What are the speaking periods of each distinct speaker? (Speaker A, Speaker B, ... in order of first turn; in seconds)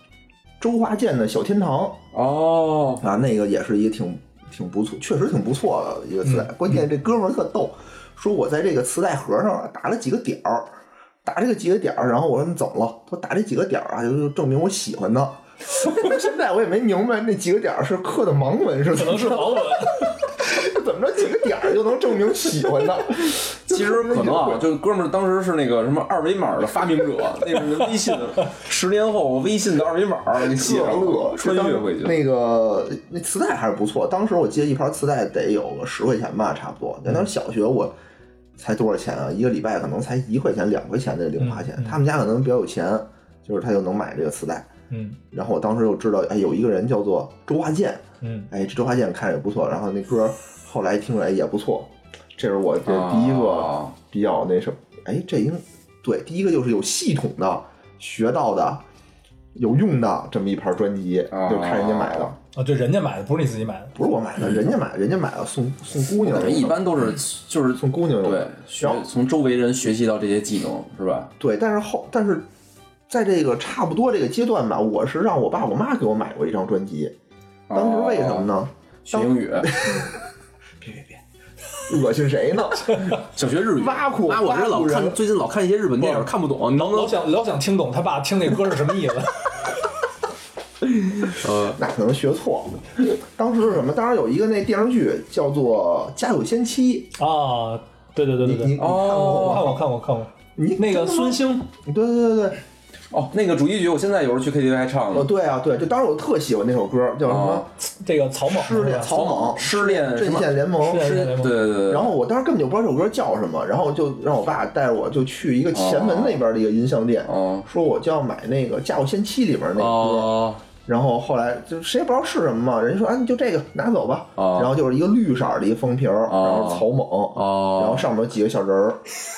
Speaker A: 0.6-2.0, 3.0-24.7, 30.4-38.0, 38.6-44.7, 45.3-58.8, 59.5-62.4, 64.0-66.9, 67.8-69.0, 71.4-72.5, 73.1-77.1, 77.7-80.2, 80.8-81.2, 81.9-83.2, 83.7-85.2, 91.8-97.1, 98.4-99.8, 100.6-102.6, 105.1-107.7, 108.5-111.2, 111.9-129.0
Speaker B: 2.1-3.0, 23.7-32.2, 52.9-53.9, 61.3-62.3, 66.2-71.3, 77.7-78.5, 79.1-79.9, 83.1-87.2, 91.2-91.8, 98.8-99.8, 103.1-105.3, 107.3-107.7, 108.9-112.2, 115.7-116.4, 117.3-117.7, 119.8-120.6, 124.4-124.7, 126.3-128.1
Speaker C: 18.9-20.2, 41.4-42.0, 44.9-45.2, 48.2-48.5, 62.5-64.0, 86.0-89.7, 97.2-101.7, 107.8-109.2, 110.8-111.6